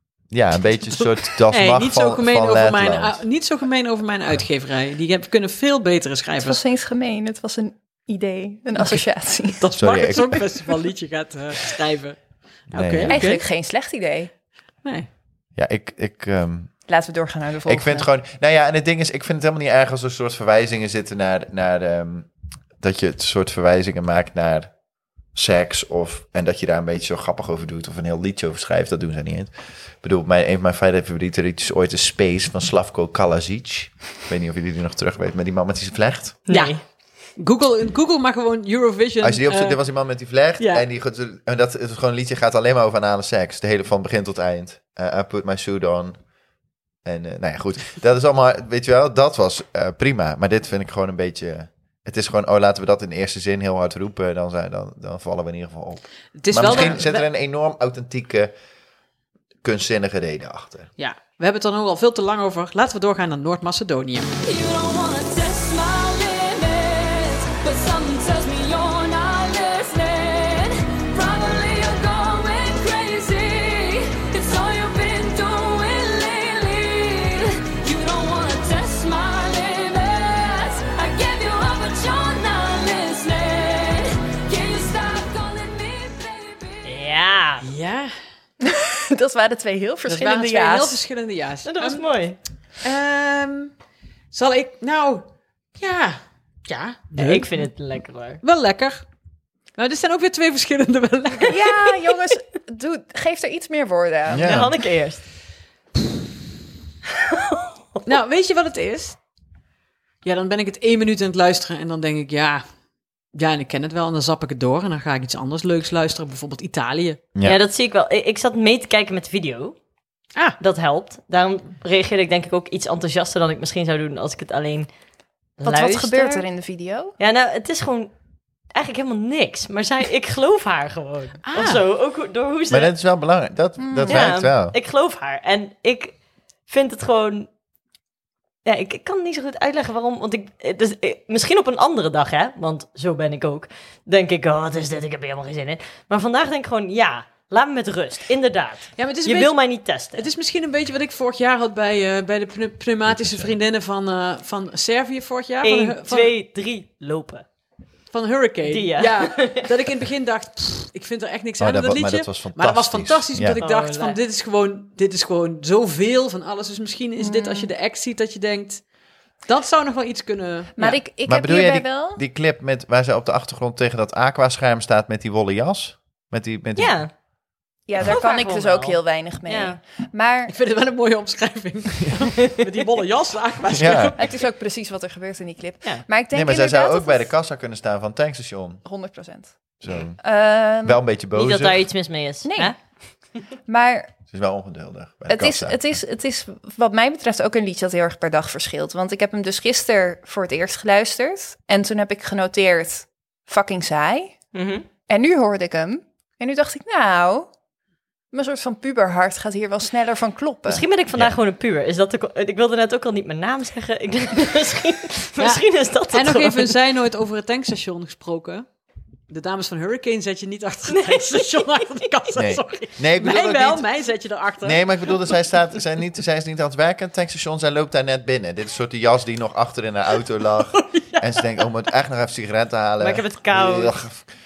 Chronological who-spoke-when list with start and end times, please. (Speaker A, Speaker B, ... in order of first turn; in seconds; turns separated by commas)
Speaker A: 0.3-3.2, Speaker B: 1.0-6.6, Speaker C: 6.4-10.4, Speaker B: 8.8-9.0, Speaker B: 9.6-12.2, Speaker A: 9.8-10.4, Speaker B: 12.7-13.4, Speaker A: 12.7-13.3, Speaker C: 13.1-14.3, Speaker B: 14.8-15.1, Speaker A: 15.6-16.7, Speaker C: 16.9-18.1, Speaker A: 17.7-22.3, Speaker A: 22.8-24.7, Speaker A: 25.4-29.5, Speaker A: 30.0-36.4, Speaker D: 36.5-36.8, Speaker B: 36.5-36.8, Speaker B: 37.4-39.8, Speaker A: 39.2-46.2, Speaker B: 40.6-40.9, Speaker A: 47.0-58.5, Speaker B: 56.4-57.2, Speaker A: 59.6-60.9, Speaker B: 61.0-64.3, Speaker E: 64.4-87.0, Speaker D: 86.8-87.7, Speaker B: 87.6-88.1, Speaker C: 88.6-91.0, Speaker B: 90.1-92.1, Speaker D: 91.7-92.4, Speaker B: 92.8-93.7, Speaker B: 94.3-97.7, Speaker D: 97.2-98.4, Speaker B: 98.4-99.1, Speaker B: 99.8-101.7, Speaker C: 101.5-104.6, Speaker A: 104.3-104.7, Speaker D: 104.4-105.2, Speaker D: 107.3-108.1, Speaker B: 108.1-109.2, Speaker B: 110.2-112.6, Speaker B: 113.3-117.2, Speaker D: 117.4-119.8, Speaker D: 120.6-124.9, Speaker D: 125.6-126.4, Speaker C: 125.6-127.1, Speaker D: 127.2-128.1, Speaker D: 128.8-132.9, Speaker B: 131.4-131.8, Speaker A: 132.7-134.8, Speaker C: 133.8-134.3, Speaker D: 134.1-137.5, Speaker D: 138.7-150.3, Speaker B: 149.0-156.3, Speaker A: 153.1-153.5, Speaker D: 155.6-157.4, Speaker B: 158.1-168.8, Speaker D: 158.7-159.6, Speaker A: 161.6-163.6, Speaker D: 163.6-164.2, Speaker C: 167.2-167.7, Speaker B: 169.4-171.0, Speaker C: 170.8-172.2, Speaker A: 171.2-177.0, Speaker D: 176.8-177.1, Speaker C: 177.9-180.5, Speaker D: 178.0-179.8, Speaker B: 180.5-184.4, Speaker A: 183.7-184.2, Speaker C: 184.2-187.3, Speaker A: 186.3-188.8, Speaker C: 188.8-191.0, Speaker A: 189.8-190.2, Speaker A: 190.8-191.8, Speaker D: 191.3-192.8, Speaker C: 192.4-192.7, Speaker C: 193.7-194.1, Speaker A: 194.3-195.8, Speaker C: 195.3-204.4, Speaker D: 204.5-204.8, Speaker C: 205.1-207.5, Speaker C: 208.3-210.8, Speaker D: 210.7-216.8, Speaker B: 215.4-218.7, Speaker B: 219.3-225.3, Speaker D: 220.9-222.1, Speaker A: 222.3-223.8, Speaker A: 224.6-234.3, Speaker B: 230.7-231.4, Speaker D: 233.0-234.0